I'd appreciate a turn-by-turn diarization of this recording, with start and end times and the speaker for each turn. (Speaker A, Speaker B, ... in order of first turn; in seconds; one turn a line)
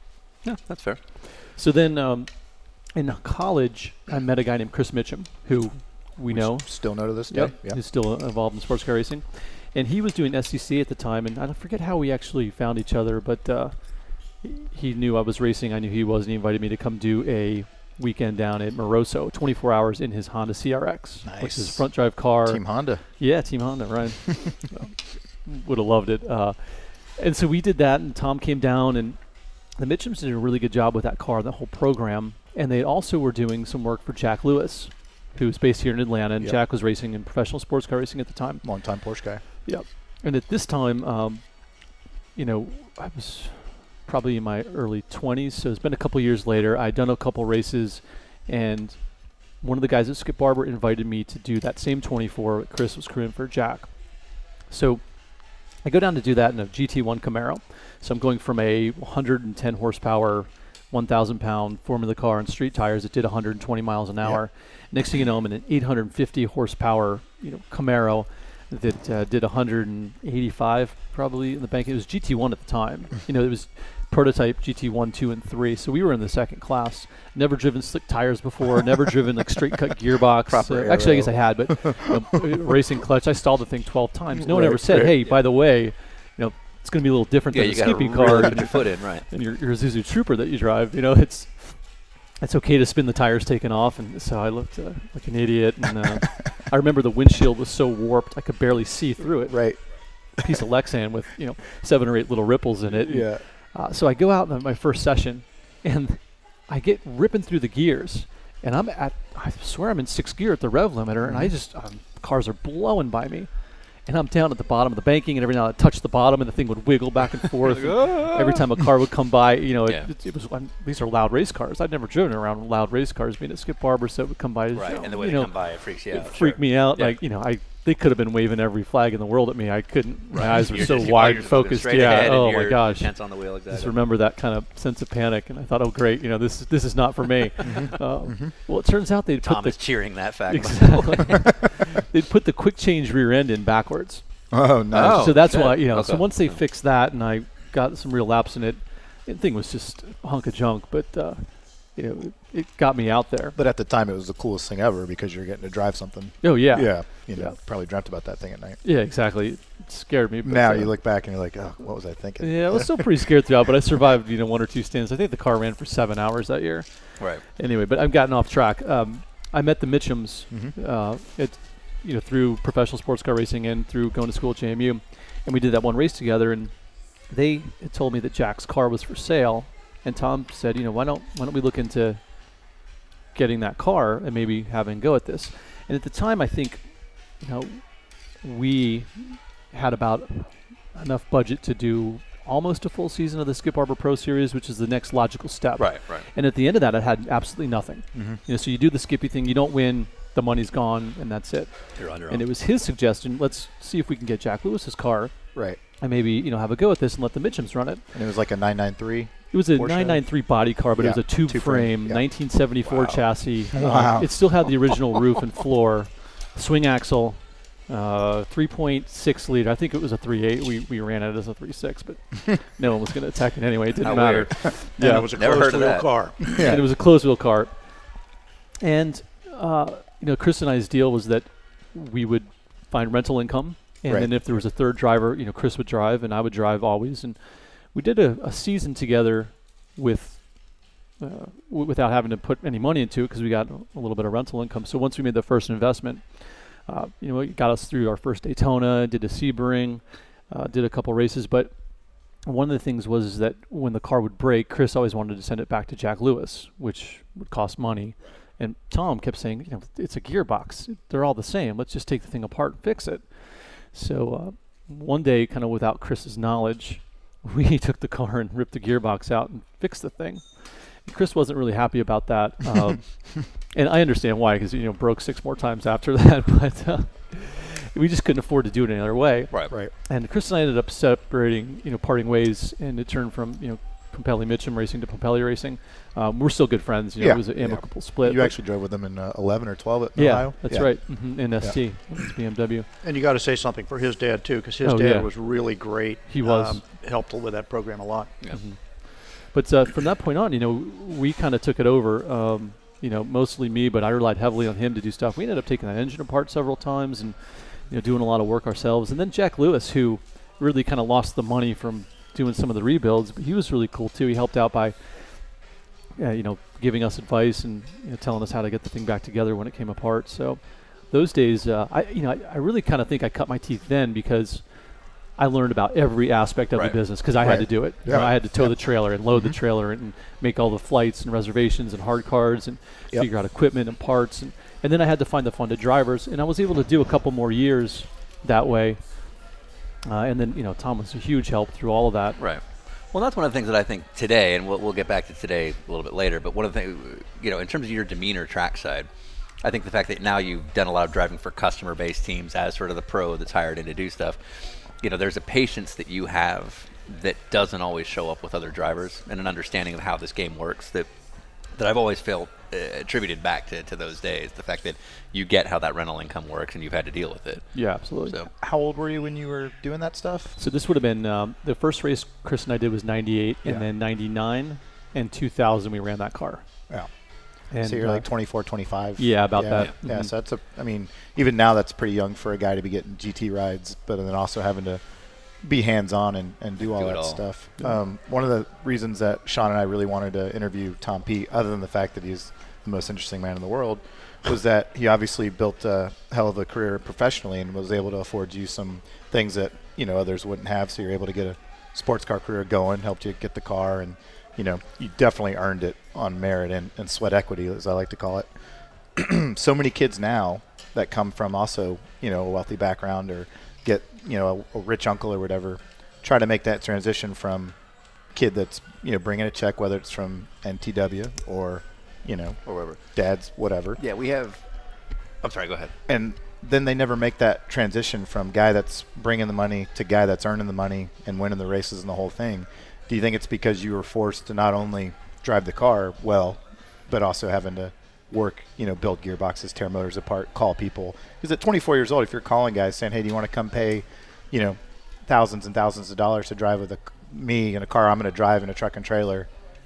Speaker A: 0.4-1.0
Speaker B: 1.2-144.5
Speaker C: 6.3-7.8
Speaker C: 21.2-23.1
Speaker C: 38.6-39.4
Speaker A: 80.5-81.4
Speaker C: 84.4-85.2
Speaker A: 85.1-85.4
Speaker A: 87.5-89.3
Speaker C: 99.4-100.6
Speaker C: 102.9-103.5
Speaker C: 111.2-111.5
Speaker A: 117.7-118.7
Speaker A: 124.7-127.2
Speaker C: 130.3-130.8
Speaker A: 130.3-134.0
Speaker C: 137.6-138.5
Speaker A: 139.4-141.5
Speaker C: 144.5-145.4
Speaker A: 144.9-146.6
Speaker B: 145.0-153.6
Speaker C: 153.6-158.8
Speaker B: 156.4-157.6
Speaker B: 158.8-161.2
Speaker C: 160.4-163.3
Speaker B: 162.4-182.7
Speaker C: 170.5-170.8
Speaker B: 183.3-208.1
Speaker A: 195.8-196.3
Speaker C: 198.1-198.4
Speaker A: 202.0-202.5
Speaker C: 205.5-205.8
Speaker C: 208.1-210.2
Speaker B: 209.5-225.3
Speaker C: 211.0-214.7
Speaker A: 224.0-226.8
Speaker D: 225.0-226.6
Speaker C: 226.5-226.8
Speaker B: 226.6-228.3
Speaker B: 228.8-288.6
Speaker C: 234.1-234.6
Speaker C: 287.2-292.3
Speaker B: 290.1-292.9
Speaker D: 293.0-298.4
Speaker B: 294.8-295.3
Speaker B: 296.3-296.8
Speaker B: 298.5-339.5
Speaker A: 326.7-327.0
Speaker C: 327.4-329.6
Speaker B: 340.0-342.5
Speaker A: 342.4-368.5
Speaker B: 367.7-368.4
Speaker C: 368.6-370.6
Speaker B: 370.6-376.8
Speaker C: 376.9-408.5
Speaker B: 377.7-380.3
Speaker A: 386.8-387.4
Speaker C: 409.1-424.0
Speaker A: 422.7-423.0
Speaker A: 424.0-424.6
Speaker A: 425.4-425.9
Speaker C: 426.1-449.5